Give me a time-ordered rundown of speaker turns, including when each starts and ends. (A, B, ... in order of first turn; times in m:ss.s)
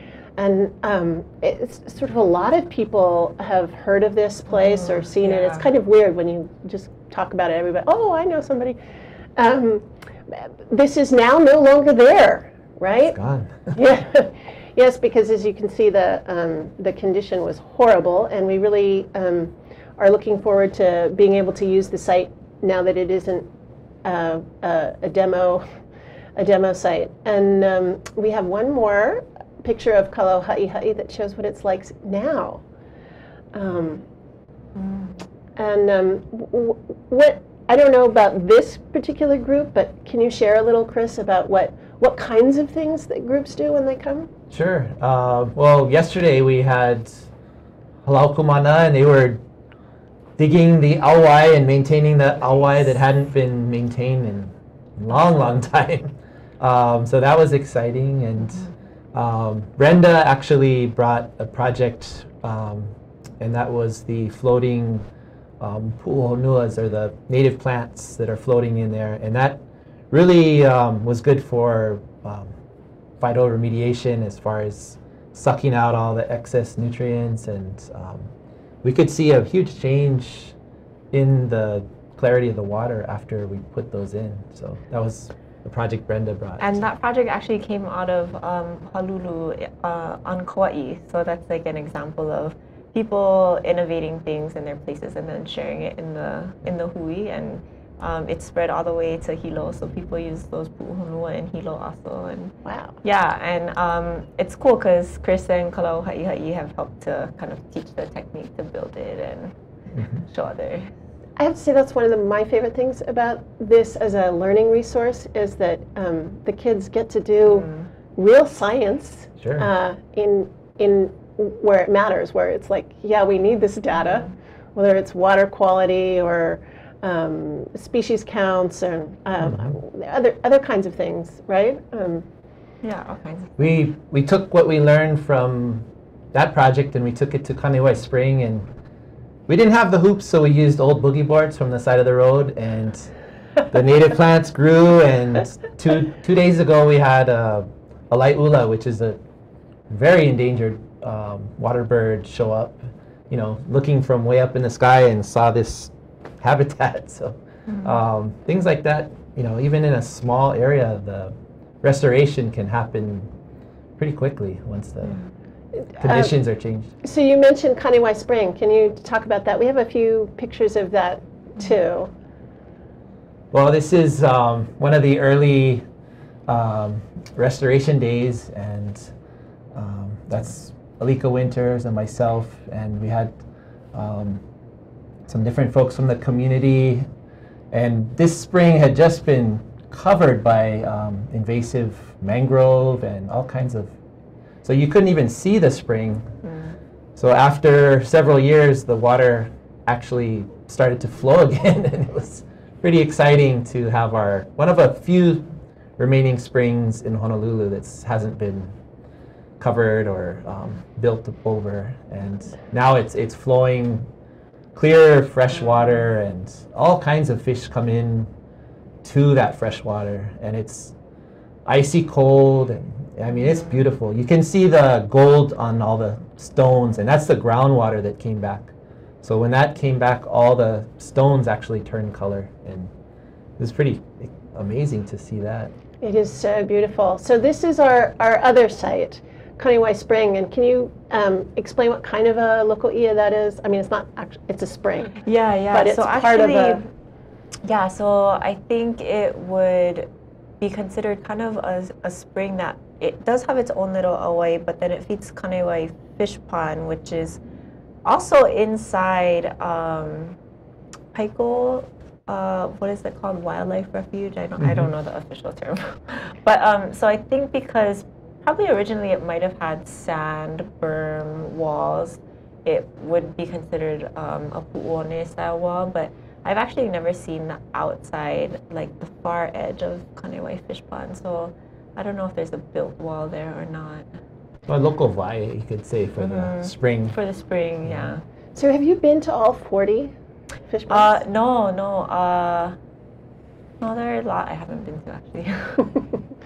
0:00.4-0:08.8 A
0:05.1-0:05.7 B
0:09.4-0:13.2 A
0:12.9-0:13.7 C
0:13.7-0:23.5 A
0:24.0-0:25.7 A
0:26.4-0:32.6 A
0:33.5-0:34.0 A
0:35.6-0:44.3 A
0:44.5-0:47.3 C
0:48.0-0:49.4 C
0:50.4-1:05.1 C
1:05.6-1:12.5 C
1:13.2-1:18.3 C
1:18.8-1:20.6 C
1:21.1-1:26.8 C
1:26.6-1:49.5 B
1:42.6-1:43.0 A
1:49.9-1:50.2 C
1:50.3-1:50.9 B
1:51.4-2:12.3 A
1:59.4-1:59.7 C
2:09.4-2:09.8 C
2:12.8-2:13.5 B
2:13.6-2:18.7 C
2:19.5-2:23.1 C
2:23.7-2:29.2 C
2:29.9-2:43.3 C
2:44.0-2:45.2 C
2:46.0-2:46.3 A
2:46.0-2:46.9 C
2:47.0-2:52.1 A
2:53.5-2:55.8 C
2:56.5-2:59.1 C
2:59.7-3:03.4 C
3:03.9-3:04.4 C
3:05.3-3:07.1 C
3:07.7-3:13.9 C
3:14.6-3:16.3 C
3:16.4-3:16.8 B
3:17.2-3:25.4 C
3:26.0-3:28.7 C
3:29.6-3:34.1 C
3:34.7-3:38.3 C
3:39.0-3:41.0 C
3:41.7-3:52.9 C
3:53.6-3:55.7 C
3:56.0-4:05.2 A
4:05.2-4:06.9 B
4:05.7-4:06.8 A
4:07.6-4:10.1 B
4:10.6-4:17.4 B
4:18.0-4:20.4 B
4:21.1-4:44.1 B
4:24.6-4:24.9 C
4:44.7-4:47.2 C
4:46.2-4:48.2 B
4:47.8-4:48.1 C
4:48.6-4:50.1 A
4:50.7-4:51.2 A
4:50.9-4:52.8 B
4:53.8-4:55.9 B